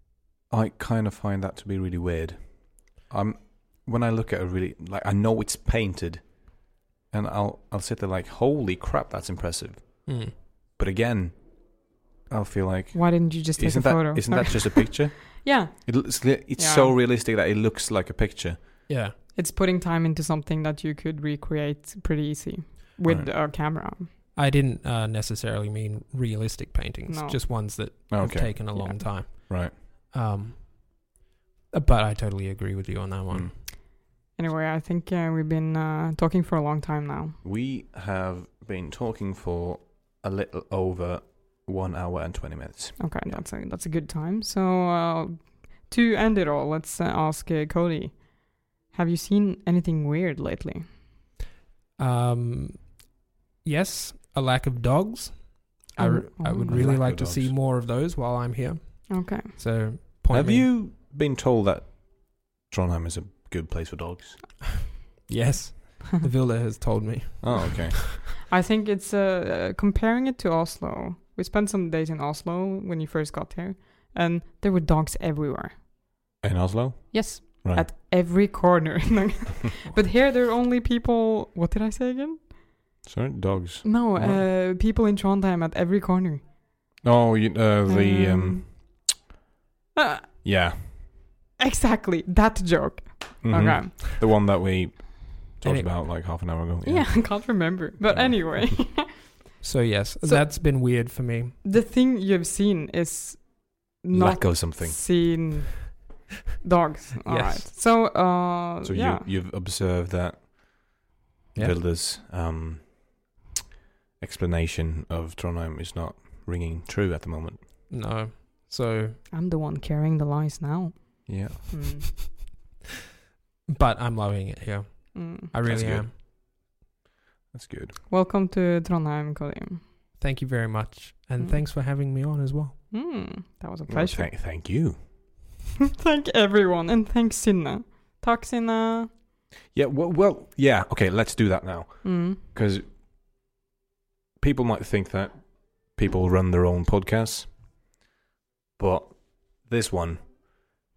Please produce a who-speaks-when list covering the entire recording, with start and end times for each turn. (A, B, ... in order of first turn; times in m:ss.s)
0:00.5-0:18.9 A
0:10.1-0:10.3 B
0:12.9-0:16.9 C
0:18.9-0:19.2 B
0:19.3-0:24.1 C
0:23.0-0:23.3 A
0:24.4-0:31.0 B
0:27.1-0:28.0 C
0:28.1-0:29.7 A
0:28.8-0:29.1 C
0:31.7-0:33.5 B
0:33.7-0:37.4 C
0:37.4-0:43.4 A
0:43.0-0:50.9 C
0:52.0-0:53.0 B
0:53.6-1:00.7 B
0:56.0-0:56.9 C
0:56.6-0:57.5 A
0:59.1-0:59.6 C
1:00.3-1:04.5 A
1:05.3-1:08.0 B
1:07.4-1:08.3 A
1:08.5-1:15.8 C
1:16.4-1:17.9 A
1:17.1-1:22.5 C
1:23.0-1:24.4 A
1:23.8-1:26.4 C
1:27.0-1:29.0 A
1:27.9-1:29.1 C
1:30.0-1:30.3 C
1:30.4-1:31.1 A
1:31.6-1:34.0 C
1:33.4-1:37.6 A
1:35.6-1:35.9 B
1:36.8-1:39.4 C
1:38.1-1:38.4 A
1:39.6-1:41.6 B
1:40.2-1:40.6 C
1:41.6-1:49.3 C
1:44.1-1:45.4 A
1:47.3-1:47.7 B
1:48.8-1:50.9 A
1:51.6-1:53.3 A
1:54.2-1:57.6 A
1:57.9-1:59.2 B
1:59.3-2:02.4 C
2:01.3-2:01.7 A
2:03.7-2:06.1 B
2:05.1-2:05.5 C
2:05.6-2:06.2 A
2:07.5-2:08.0 A
2:08.1-2:09.8 C
2:10.2-2:12.8 B
2:12.9-2:14.3 C
2:13.9-2:15.2 A
2:16.0-2:19.1 C
2:19.7-2:22.9 A
2:22.0-2:22.4 C
2:24.4-2:27.6 A
2:28.8-2:30.4 A